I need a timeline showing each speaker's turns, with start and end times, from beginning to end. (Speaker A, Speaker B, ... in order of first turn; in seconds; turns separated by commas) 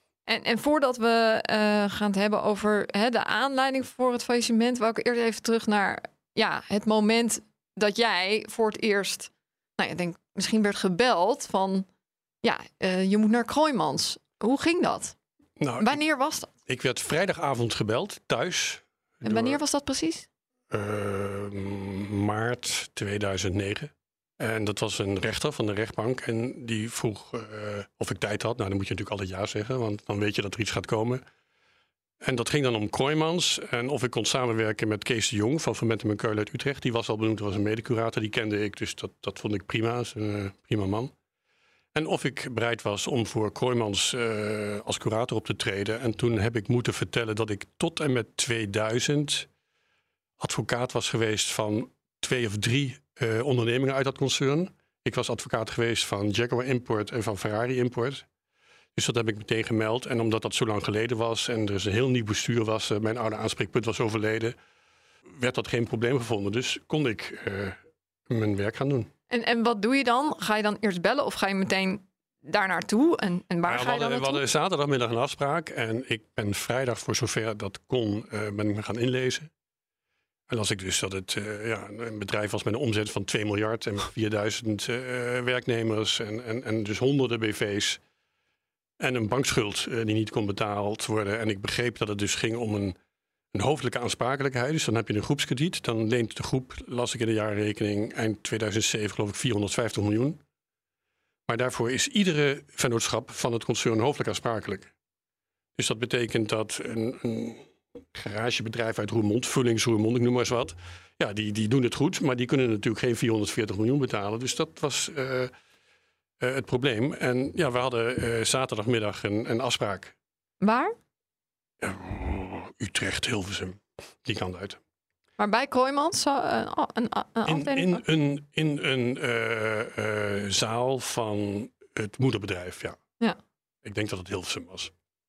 Speaker A: 0.3-11.9, Speaker A: 12.4-15.1, Speaker B: 15.6-16.0, Speaker A: 15.8-16.5, Speaker B: 16.7-19.6, Speaker A: 19.2-20.3, Speaker B: 20.7-31.2, Speaker B: 32.2-41.1, Speaker B: 41.9-49.5, Speaker B: 50.4-58.2, Speaker B: 59.0-64.5, Speaker B: 65.3-67.8, Speaker B: 68.3-69.1, Speaker A: 69.3-74.4, Speaker B: 73.7-79.5, Speaker B: 80.5-88.0, Speaker B: 89.0-93.0, Speaker B: 93.5-100.4, Speaker B: 101.5-104.9, Speaker B: 105.8-115.5, Speaker B: 116.4-120.1, Speaker A: 120.6-120.9, Speaker B: 121.8-124.8, Speaker A: 125.4-128.0, Speaker B: 127.5-133.0, Speaker B: 133.8-134.9